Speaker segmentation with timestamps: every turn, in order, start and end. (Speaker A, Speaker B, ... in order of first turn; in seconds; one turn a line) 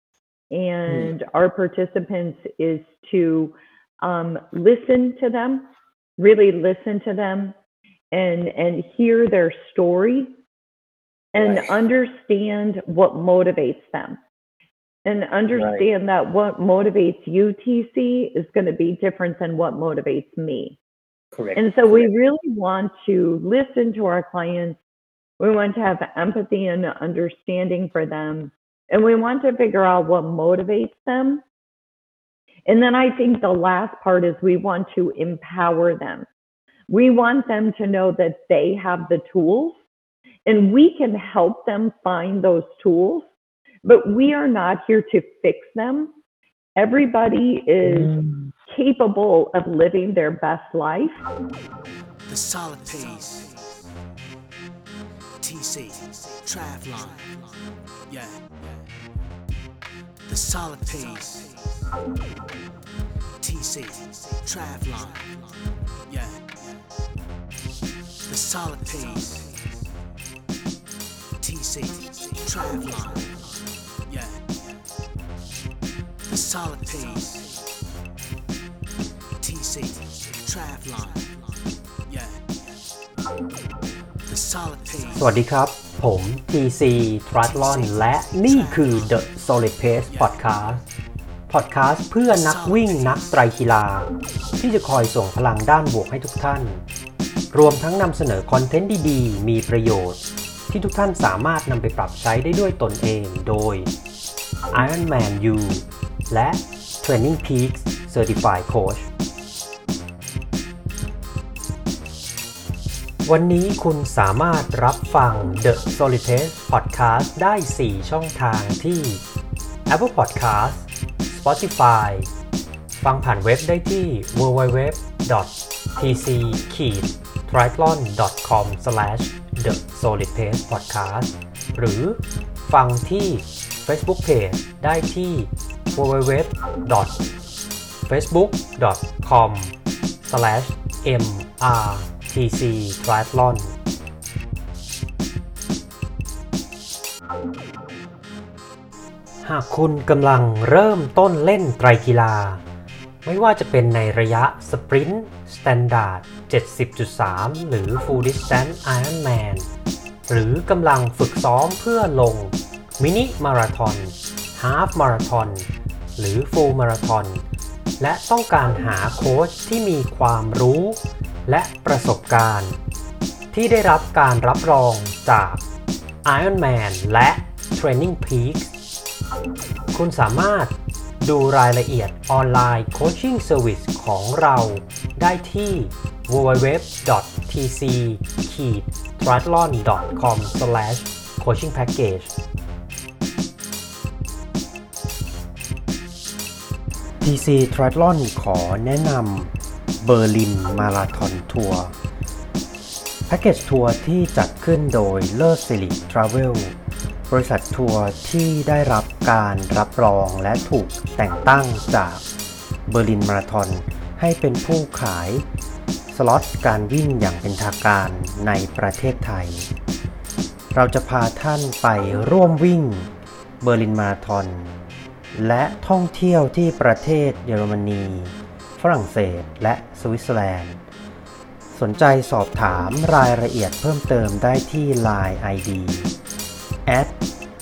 Speaker A: 0.5-7.5
Speaker B: 0.9-1.1
Speaker A: 8.1-10.4
Speaker A: 11.3-14.2
Speaker B: 11.4-11.7
Speaker A: 15.0-20.8
Speaker B: 15.5-15.8
Speaker B: 21.3-22.1
Speaker A: 21.6-24.8
Speaker A: 25.4-31.4
Speaker A: 32.7-36.3
Speaker A: 36.9-39.8
Speaker A: 40.5-43.3
Speaker A: 43.8-46.1
Speaker A: 46.8-48.1
Speaker B: 47.8-48.5
Speaker A: 48.7-51.2
Speaker C: 52.3-53.8
Speaker C: 55.4-58.8
Speaker C: 60.3-61.9
Speaker C: 63.4-65.5
Speaker C: 66.1-66.7
Speaker C: 68.3-69.8
Speaker C: 71.4-74.8
Speaker C: 76.3-77.7
Speaker C: 79.4-82.8
Speaker C: 84.3-85.4
Speaker D: 85.2-90.8
Speaker C: 87.5-89.2
Speaker C: 90.0-90.9
Speaker D: 91.5-96.8
Speaker C: 92.3-93.4
Speaker D: 97.5-103.9
Speaker D: 104.7-109.1
Speaker D: 113.2-119.2
Speaker D: 119.9-122.3
Speaker D: 123.0-137.2
Speaker D: 138.1-143.7
Speaker D: 149.4-152.6
Speaker D: 153.2-159.7
Speaker D: 160.3-167.4
Speaker D: 168.0-172.8
Speaker D: 173.5-175.6
Speaker D: 176.2-178.7
Speaker D: 179.9-192.3
Speaker D: 197.2-201.9
Speaker D: 203.3-206.7
Speaker D: 207.3-212.2
Speaker D: 212.9-215.4
Speaker D: 216.1-219.7
Speaker D: 220.7-223.1
Speaker D: 223.6-224.7
Speaker D: 225.3-230.8
Speaker D: 231.7-236.1
Speaker D: 236.8-237.2